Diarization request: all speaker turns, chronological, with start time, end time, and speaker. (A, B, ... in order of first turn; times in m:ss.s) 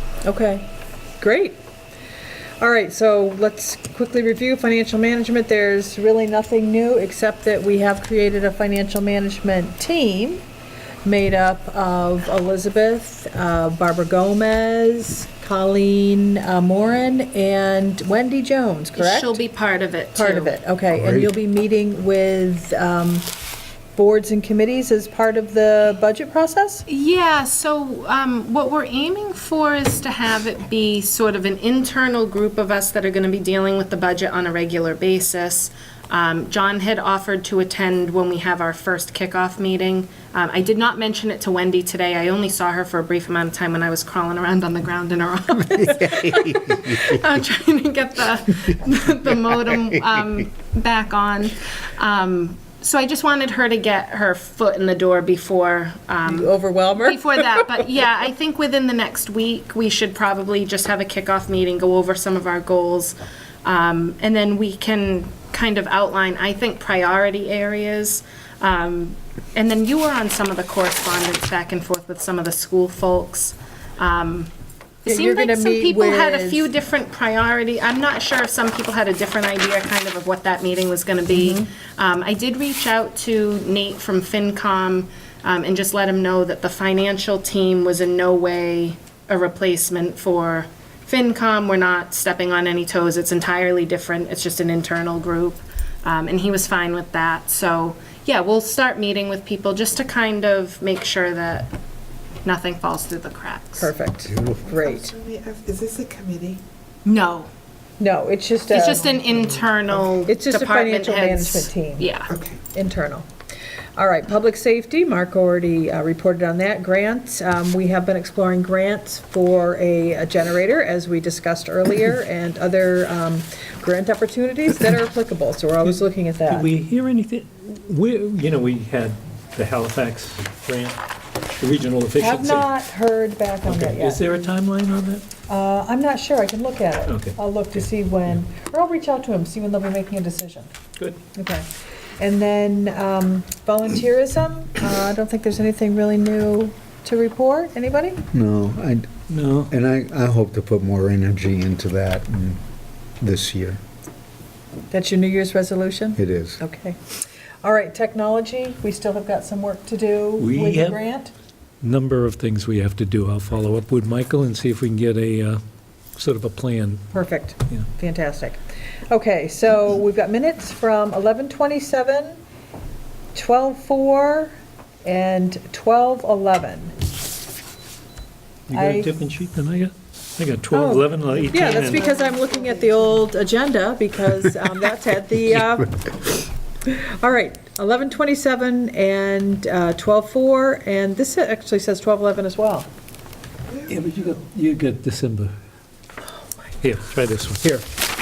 0:00.2-0:00.6 A
0:01.2-0:01.6 A
0:02.6-0:10.4 A
0:11.0-0:19.4 A
0:19.0-0:20.6 B
0:20.2-0:23.3 A
0:20.9-0:21.3 C
0:24.0-0:26.8 A
0:26.9-1:14.5 B
0:56.3-0:57.7 A
1:15.0-1:41.7 B
1:15.1-1:16.6 A
1:21.3-1:21.7 A
1:42.4-1:43.9 B
1:43.8-1:45.2 A
1:44.9-1:46.6 D
1:47.0-1:47.5 B
1:48.0-1:49.1 A
1:48.7-1:52.3 B
1:50.2-1:52.1 A
1:52.6-1:53.3 A
1:54.0-2:06.7 A
2:06.5-2:11.0 E
2:11.6-2:12.7 E
2:12.2-2:14.3 A
2:13.6-2:15.2 E
2:15.5-2:20.7 A
2:17.1-2:18.4 E
2:21.4-2:21.6 A
2:22.2-2:28.2 A
2:28.3-2:29.1 C
2:29.3-2:29.7 E
2:29.7-2:32.6 C
2:33.2-2:33.8 C
2:34.9-2:37.0 A
2:36.2-2:36.6 C
2:37.6-2:41.3 A
2:40.4-2:41.0 E
2:41.8-2:45.6 E
2:46.2-2:47.1 E
2:47.1-2:48.6 A
2:49.1-2:52.4 A
2:53.3-2:54.5 A
2:55.0-2:56.9 A
2:58.7-3:02.1 E
2:58.7-2:59.1 A
3:00.7-3:12.9 A
3:01.6-3:02.4 D
3:13.8-3:15.5 E
3:16.8-3:17.9 E